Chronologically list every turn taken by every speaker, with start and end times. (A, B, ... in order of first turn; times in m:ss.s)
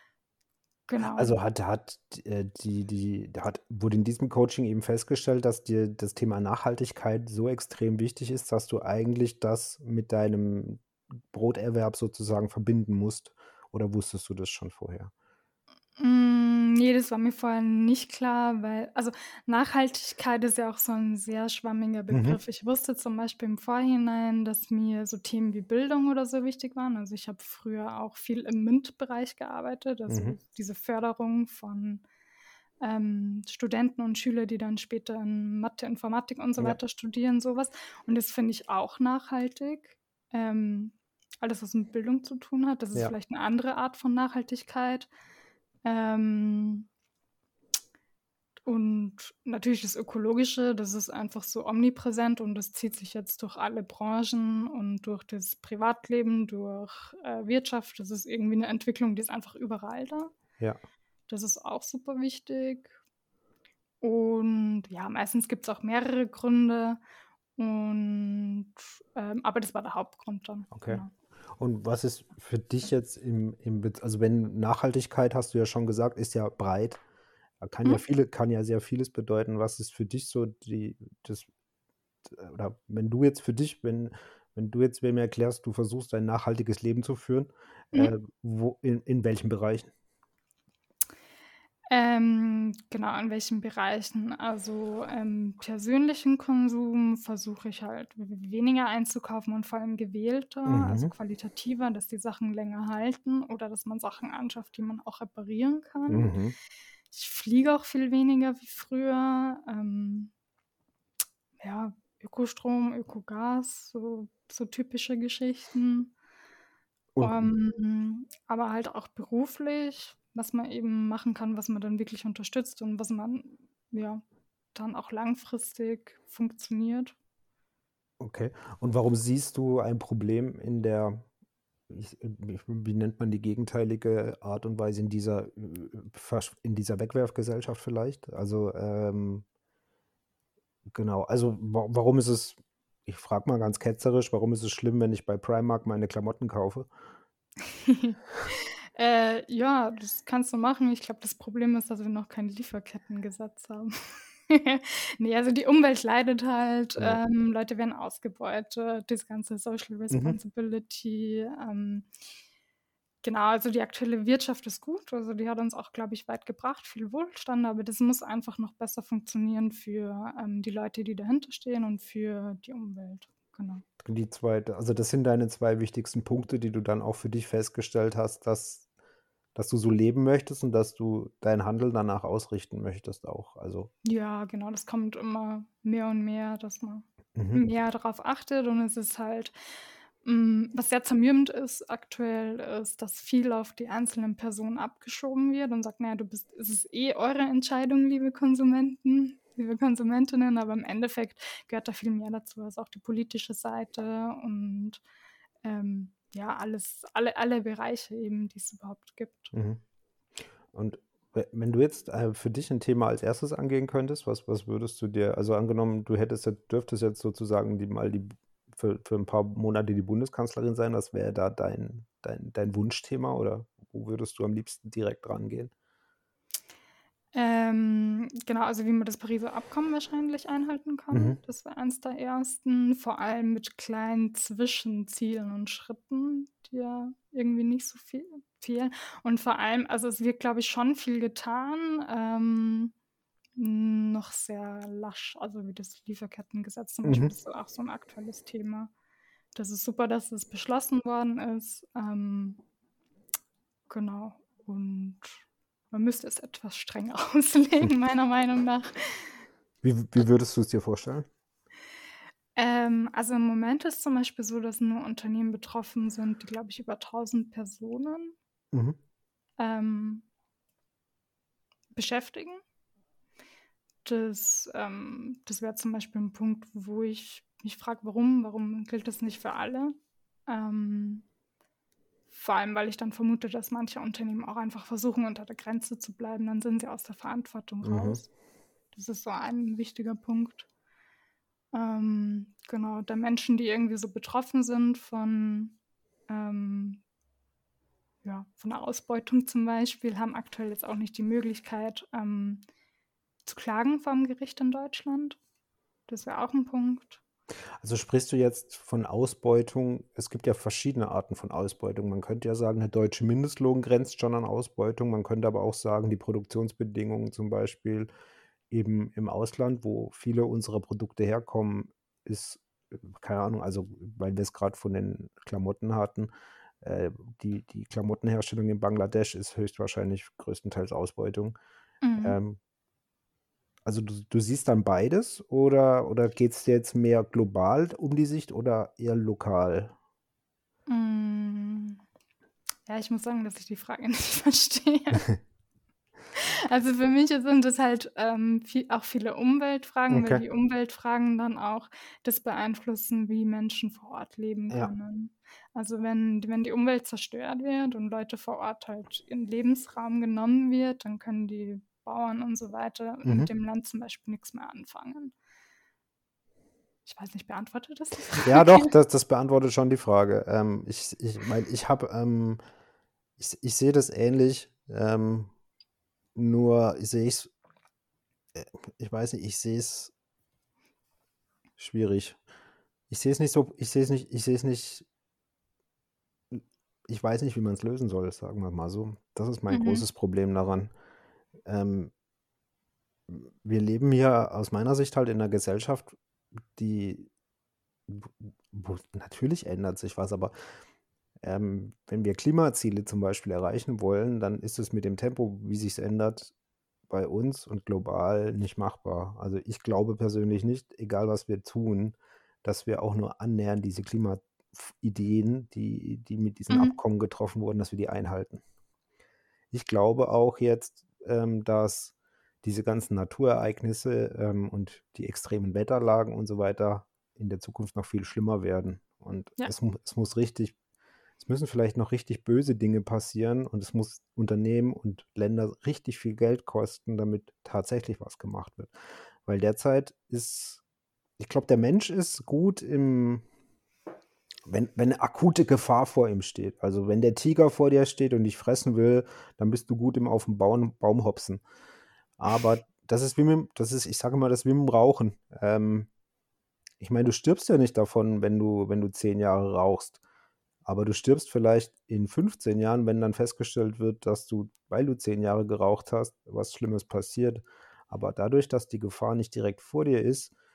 0:00.9-0:01.4 A
0:01.1-0:15.1 B
0:16.0-0:32.0 A
0:22.1-0:22.4 B
0:30.1-0:30.4 B
0:32.8-0:45.1 A
0:45.8-0:46.9 A
0:48.6-1:00.3 A
1:01.3-1:03.0 A
1:04.0-1:07.0 A
1:07.6-1:11.1 A
1:10.7-1:11.0 B
1:11.6-1:17.0 B
1:17.6-1:21.5 B
1:22.3-1:29.9 B
1:31.9-1:46.3 A
1:40.7-1:41.1 B
1:46.1-1:46.6 B
1:47.1-1:50.3 A
1:51.6-1:56.1 A
1:57.2-1:57.5 B
1:57.2-2:04.2 A
2:04.7-2:07.2 A
2:08.2-2:11.2 B
2:11.9-2:19.4 B
2:21.0-2:26.9 B
2:27.7-2:42.1 A
2:40.1-2:40.4 B
2:43.2-2:53.8 A
2:54.0-2:58.8 B
2:59.6-3:03.9 B
3:04.0-3:09.6 A
3:07.4-3:07.7 B
3:10.2-3:25.0 A
3:25.6-3:29.5 A
3:29.5-3:29.8 B
3:30.7-3:45.7 B
3:47.3-4:02.9 A
3:51.1-3:51.4 B
4:03.6-4:08.9 A
4:07.0-4:07.4 B
4:09.6-4:12.6 A
4:13.9-4:19.4 A
4:19.8-4:21.3 B
4:22.6-4:28.4 A
4:28.7-4:29.0 B
4:29.6-4:30.2 A
4:32.0-4:32.6 A
4:34.0-4:40.0 A
4:40.5-4:41.2 A
4:42.3-4:48.3 A
4:47.8-4:48.2 B
4:48.9-4:50.7 A
4:51.7-4:55.8 A
4:56.3-4:57.0 A
4:58.2-5:02.6 A
5:03.5-5:05.4 A
5:06.1-5:07.2 A
5:07.8-5:18.1 B
5:18.7-5:26.3 B
5:26.8-5:31.6 B
5:32.0-5:32.4 A
5:32.2-5:32.6 B
5:33.9-5:40.0 B
5:40.9-5:42.0 A
5:42.9-5:45.3 A
5:46.3-6:05.3 A
5:50.1-5:50.4 B
6:03.2-6:03.5 B
6:07.1-6:08.9 A
6:08.4-6:12.6 B
6:13.4-6:15.5 B
6:16.4-6:17.5 B
6:18.6-6:20.1 B
6:21.8-6:22.4 B
6:23.1-6:25.1 B
6:26.5-6:30.9 B
6:29.7-6:30.0 A
6:31.7-6:32.1 B
6:33.3-6:36.2 B
6:36.8-6:37.3 B
6:38.1-6:40.5 B
6:41.4-6:46.5 B
6:47.1-6:58.6 B
6:56.7-6:57.0 A
6:59.7-7:10.8 B
7:11.4-7:18.9 B
7:19.5-7:20.8 B
7:21.4-7:23.4 B
7:24.7-7:31.6 B
7:32.4-7:36.1 B
7:37.0-7:40.2 B
7:40.9-7:50.5 B